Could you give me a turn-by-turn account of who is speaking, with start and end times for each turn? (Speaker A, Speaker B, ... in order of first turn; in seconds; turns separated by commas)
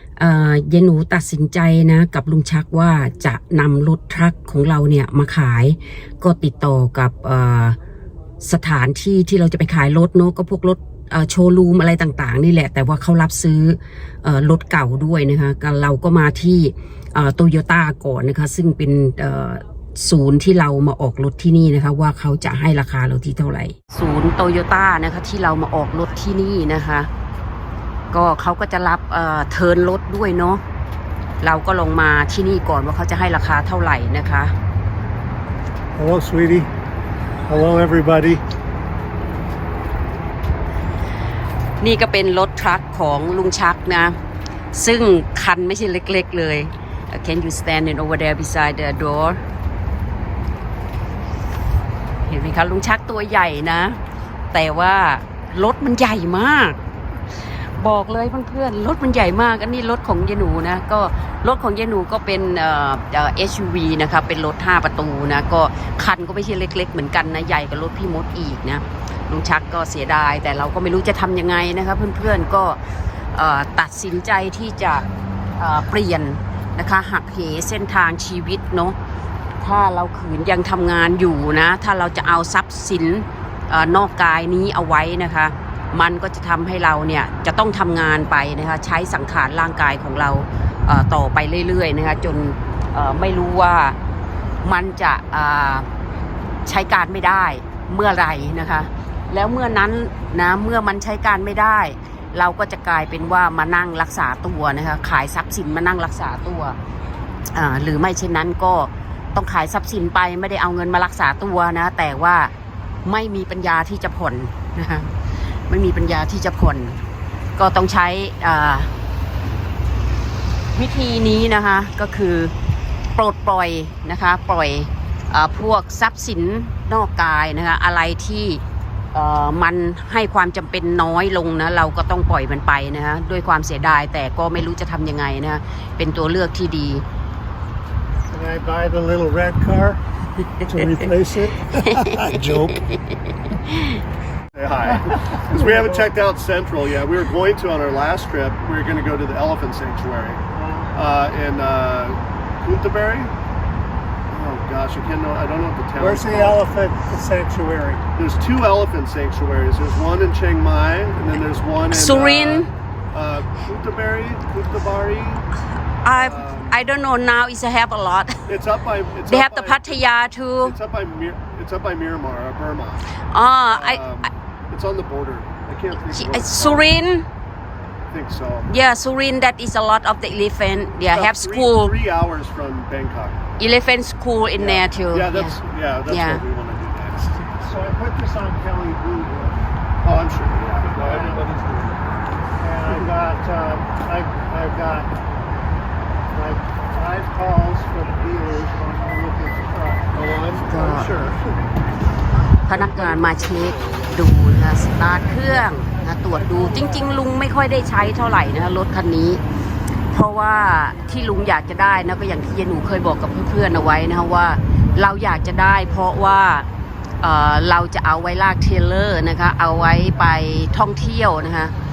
Speaker A: 0.2-7.8, Speaker A: 8.4-27.1, Speaker A: 28.1-30.6, Speaker A: 31.4-34.5, Speaker B: 36.0-36.7, Speaker B: 37.5-38.4, Speaker A: 41.8-44.2, Speaker A: 44.7-49.4, Speaker A: 52.2-54.0, Speaker A: 54.5-56.8, Speaker A: 57.8-79.0, Speaker A: 79.6-94.0, Speaker A: 94.6-95.9, Speaker A: 96.7-106.8, Speaker A: 107.5-112.5, Speaker A: 113.0-115.1, Speaker A: 115.7-117.0, Speaker A: 117.6-118.9, Speaker A: 120.7-122.5, Speaker A: 123.2-128.6, Speaker A: 129.1-137.0, Speaker B: 138.3-140.0, Speaker B: 140.6-142.8, Speaker A: 141.8-144.0, Speaker C: 144.5-150.4, Speaker B: 145.3-146.0, Speaker B: 150.5-150.9, Speaker C: 150.9-153.3, Speaker C: 154.3-156.6, Speaker B: 156.0-158.0, Speaker C: 158.1-165.5, Speaker A: 161.9-162.7, Speaker A: 166.0-168.4, Speaker C: 166.1-166.8, Speaker C: 168.5-170.0, Speaker A: 169.3-170.8, Speaker C: 170.6-173.0, Speaker A: 173.3-174.0, Speaker C: 173.7-176.9, Speaker A: 176.0-177.3, Speaker C: 178.1-178.7, Speaker A: 178.7-182.0, Speaker C: 181.0-183.4, Speaker A: 183.6-186.4, Speaker C: 184.6-187.6, Speaker B: 187.6-189.6, Speaker C: 190.0-191.5, Speaker B: 191.0-191.5, Speaker B: 192.6-195.2, Speaker B: 196.3-201.4, Speaker A: 200.7-201.2, Speaker A: 202.7-209.4, Speaker A: 210.1-216.7, Speaker A: 217.2-221.7